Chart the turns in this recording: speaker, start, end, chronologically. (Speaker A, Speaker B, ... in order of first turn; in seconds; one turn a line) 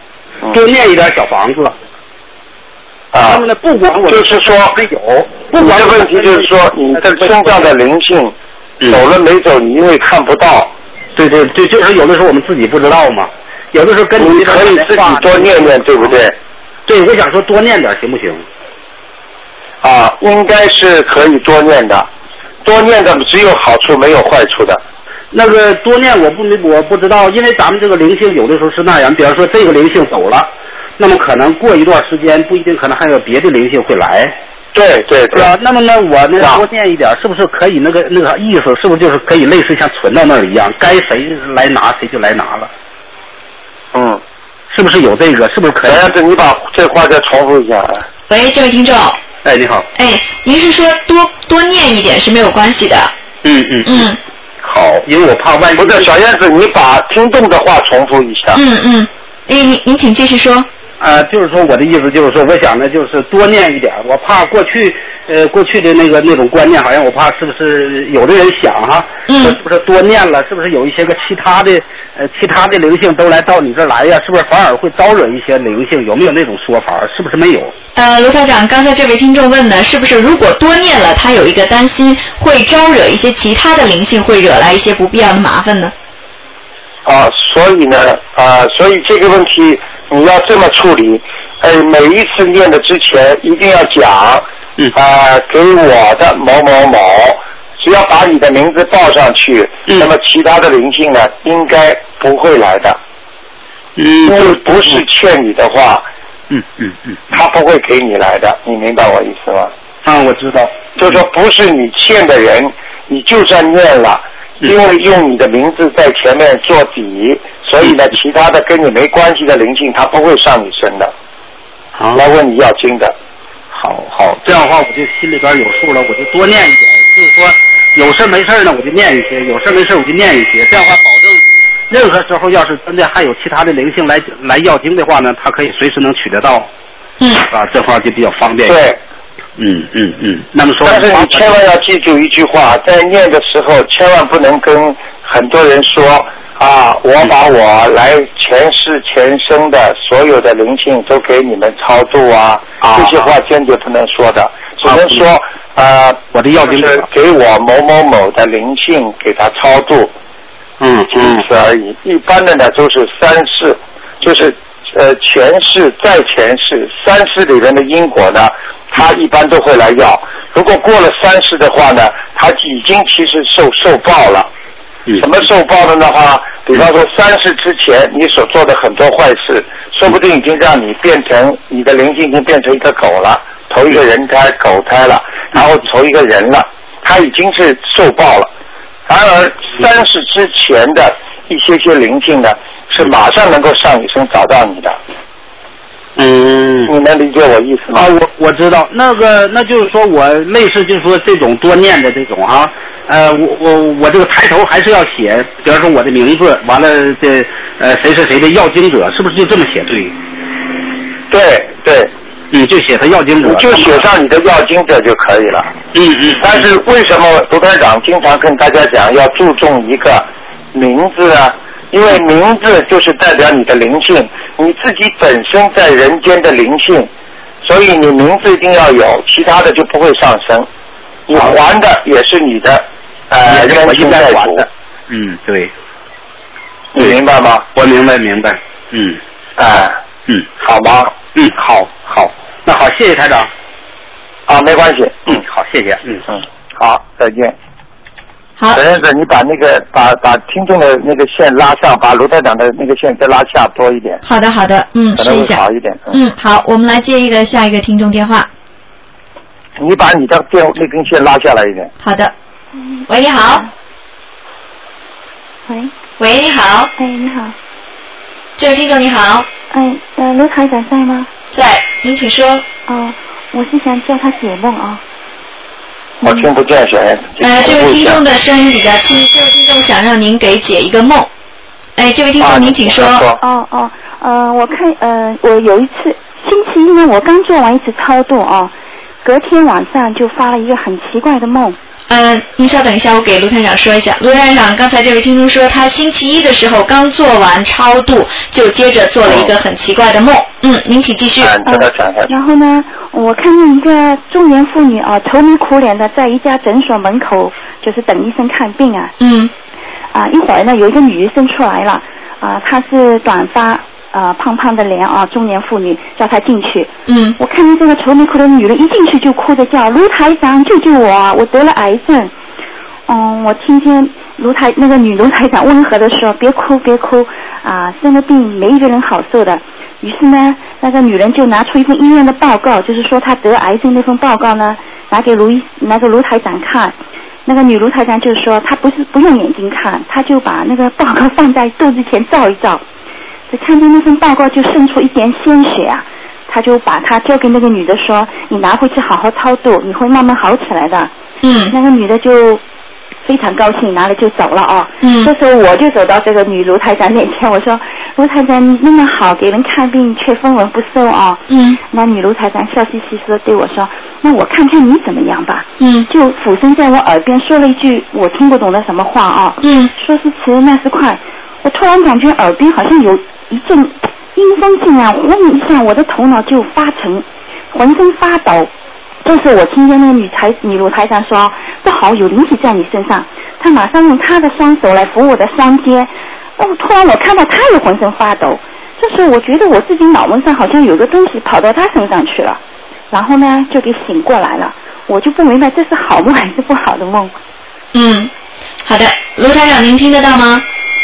Speaker A: 0.5-1.8
Speaker B: 3.1-3.5
Speaker A: 3.3-7.7
Speaker B: 4.1-4.8
Speaker B: 5.5-10.7
Speaker A: 11.2-16.2
Speaker B: 14.2-16.4
Speaker A: 16.9-18.4
Speaker B: 19.8-22.1
Speaker B: 22.6-24.8
Speaker A: 25.3-30.5
Speaker A: 31.0-34.3
Speaker B: 34.7-35.5
Speaker A: 35.3-42.7
Speaker B: 36.4-36.6
Speaker B: 43.9-44.2
Speaker A: 44.7-46.1
Speaker B: 45.8-48.1
Speaker C: 48.3-49.2
Speaker A: 49.4-49.9
Speaker C: 50.0-53.1
Speaker A: 53.4-54.1
Speaker C: 53.9-54.2
Speaker A: 54.6-56.1
Speaker B: 55.8-58.6
Speaker C: 58.5-60.7
Speaker A: 61.0-77.7
Speaker C: 69.3-69.6
Speaker C: 78.0-85.9
Speaker B: 87.0-103.0
Speaker A: 104.0-105.0
Speaker B: 104.2-106.1
Speaker A: 106.5-107.2
Speaker B: 107.3-109.7
Speaker A: 110.0-111.2
Speaker B: 111.0-121.1
Speaker A: 122.0-122.2
Speaker B: 122.1-123.2
Speaker A: 123.7-136.7
Speaker C: 137.2-137.5
Speaker A: 137.5-138.8
Speaker B: 138.6-139.0
Speaker A: 139.6-141.6
Speaker B: 140.8-160.1
Speaker A: 152.8-153.3
Speaker A: 154.8-155.2
Speaker A: 156.3-157.1
Speaker A: 160.8-161.4
Speaker B: 161.1-174.5
Speaker B: 175.2-188.5
Speaker B: 189.1-195.0
Speaker A: 196.2-196.9
Speaker B: 196.9-198.1
Speaker A: 197.9-210.1
Speaker B: 211.3-212.1
Speaker A: 212.5-214.1
Speaker B: 213.4-215.7
Speaker A: 215.9-216.6
Speaker B: 216.4-227.1
Speaker B: 227.6-230.7
Speaker B: 231.3-234.7
Speaker A: 231.3-231.6
Speaker A: 233.5-235.7
Speaker B: 236.9-237.7
Speaker A: 237.8-239.2
Speaker B: 239.6-240.0
Speaker B: 240.6-241.1
Speaker A: 241.3-243.5
Speaker B: 244.5-245.4
Speaker A: 245.3-246.2
Speaker B: 246.8-247.6
Speaker B: 248.7-254.2
Speaker C: 254.2-258.5
Speaker B: 255.2-256.2
Speaker B: 259.8-261.9
Speaker C: 262.0-262.3
Speaker D: 262.8-263.7
Speaker C: 263.1-263.6
Speaker D: 265.7-265.9
Speaker C: 266.2-266.9
Speaker D: 267.0-267.6
Speaker C: 268.6-269.5
Speaker D: 269.7-271.3
Speaker C: 271.5-272.6
Speaker D: 272.9-275.0
Speaker B: 276.2-278.2
Speaker C: 277.4-281.3
Speaker C: 282.0-283.2
Speaker B: 282.4-283.4
Speaker D: 283.4-288.7
Speaker D: 289.2-291.8
Speaker C: 292.1-301.6
Speaker B: 299.2-299.5
Speaker B: 301.4-302.4
Speaker D: 301.7-309.1
Speaker C: 309.2-309.5
Speaker D: 310.1-322.3
Speaker C: 317.1-317.4
Speaker D: 323.1-342.8
Speaker D: 343.5-351.1
Speaker C: 351.4-351.7
Speaker D: 351.7-352.6
Speaker D: 353.2-378.7
Speaker C: 355.0-355.3
Speaker C: 361.5-361.8
Speaker C: 365.8-366.1
Speaker C: 369.6-369.9
Speaker D: 379.2-397.3
Speaker C: 397.9-398.3
Speaker C: 398.9-400.6